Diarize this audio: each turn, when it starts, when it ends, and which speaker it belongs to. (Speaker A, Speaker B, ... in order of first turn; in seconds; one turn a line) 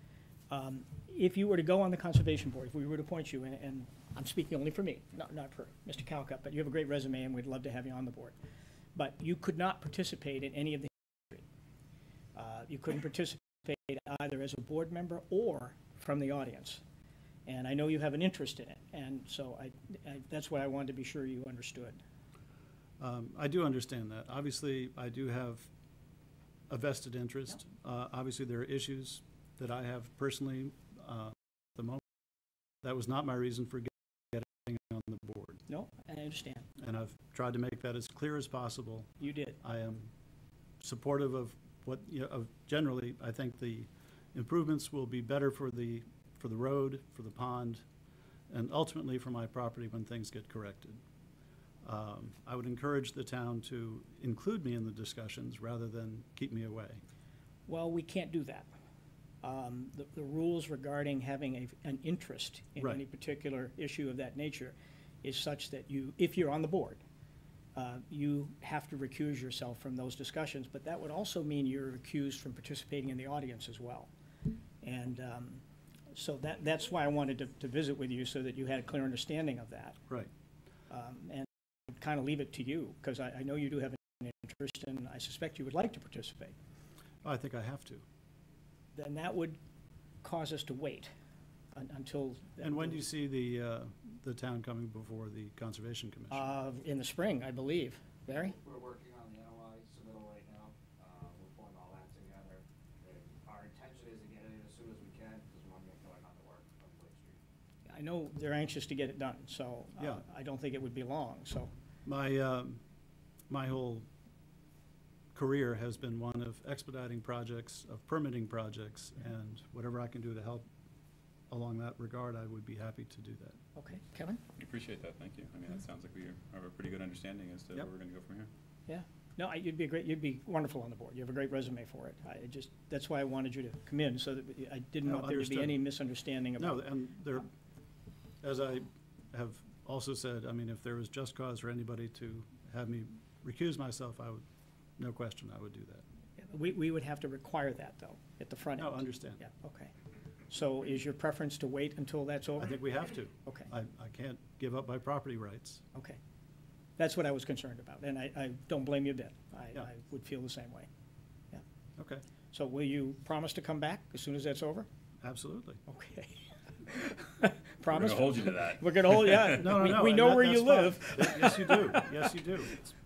Speaker A: 0.5-8.4
Speaker A: 8.9-11.4
Speaker A: 12.3-16.8
Speaker A: 17.5-22.0
Speaker B: 23.0-25.7
Speaker B: 26.7-32.0
Speaker B: 32.8-35.6
Speaker A: 35.7-36.7
Speaker B: 36.8-40.1
Speaker A: 39.2-39.6
Speaker B: 40.8-47.8
Speaker B: 48.5-51.0
Speaker B: 51.8-57.0
Speaker A: 57.7-58.7
Speaker A: 59.4-67.0
Speaker A: 67.8-74.1
Speaker A: 74.8-80.0
Speaker A: 80.9-86.6
Speaker B: 87.2-88.0
Speaker A: 89.0-89.6
Speaker A: 90.2-91.1
Speaker A: 91.7-93.0
Speaker B: 92.6-96.5
Speaker A: 96.3-98.6
Speaker C: 98.6-107.4
Speaker A: 107.9-111.7
Speaker B: 110.0-110.2
Speaker B: 112.1-112.8
Speaker B: 113.5-114.1
Speaker B: 115.3-120.7
Speaker B: 121.5-123.6
Speaker A: 123.8-124.4
Speaker D: 124.6-128.5
Speaker A: 128.9-136.8
Speaker B: 135.0-135.8
Speaker B: 136.6-137.5
Speaker B: 138.4-144.4
Speaker B: 145.0-146.0
Speaker A: 146.4-149.9
Speaker B: 148.8-149.4
Speaker A: 150.5-152.8
Speaker B: 152.6-155.8
Speaker A: 155.9-156.2
Speaker A: 157.0-160.9
Speaker B: 162.0-162.2
Speaker A: 162.5-164.9
Speaker B: 165.2-165.8
Speaker A: 165.9-172.8
Speaker D: 167.9-169.6
Speaker B: 169.5-172.8